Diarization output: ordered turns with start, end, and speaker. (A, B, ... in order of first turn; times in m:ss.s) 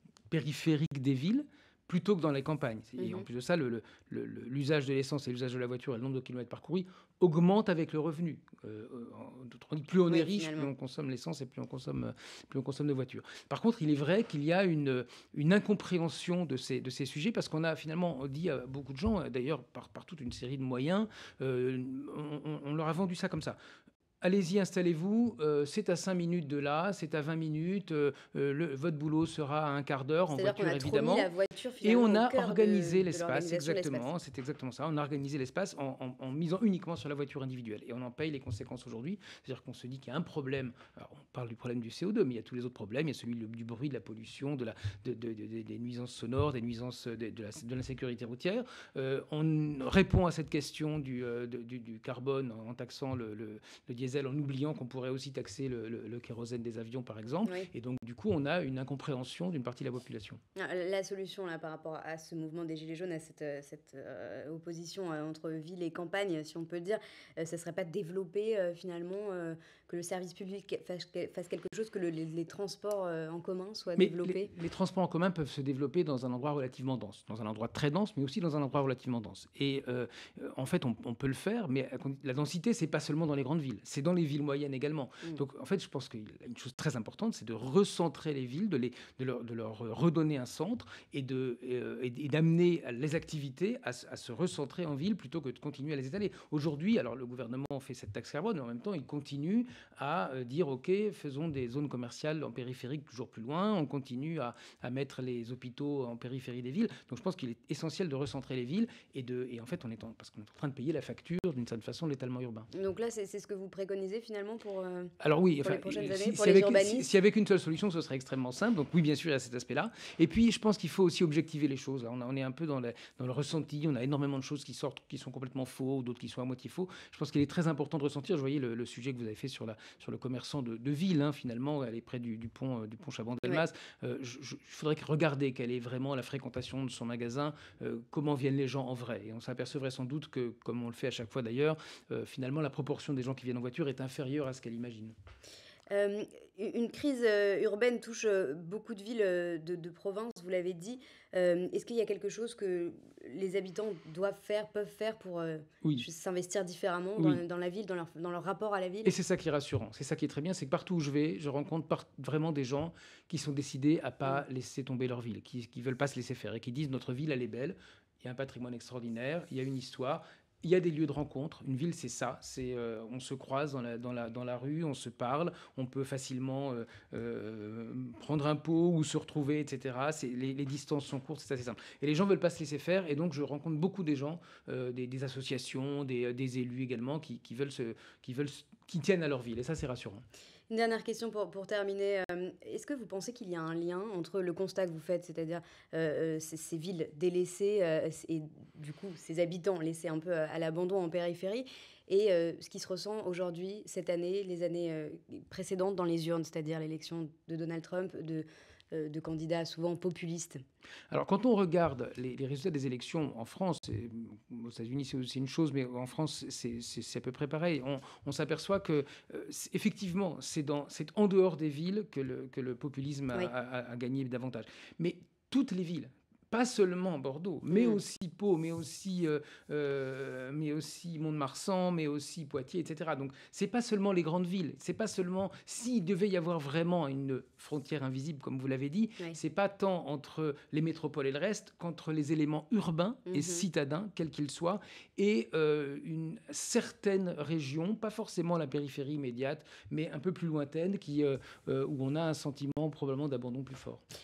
0:00.3-0:23.6 A
0:03.0-0:03.3 B
0:10.1-0:10.7 B
0:24.2-0:31.3 A
0:30.3-0:34.1 B
0:31.8-1:00.4 A
1:00.6-1:14.5 B
1:14.0-1:52.7 A
1:52.7-1:57.1 B
1:55.2-2:25.1 A
2:25.9-2:39.1 B
2:39.0-3:10.2 A
3:10.7-3:30.6 B
3:31.1-4:14.0 A
3:47.7-3:48.0 B
4:03.3-4:03.6 B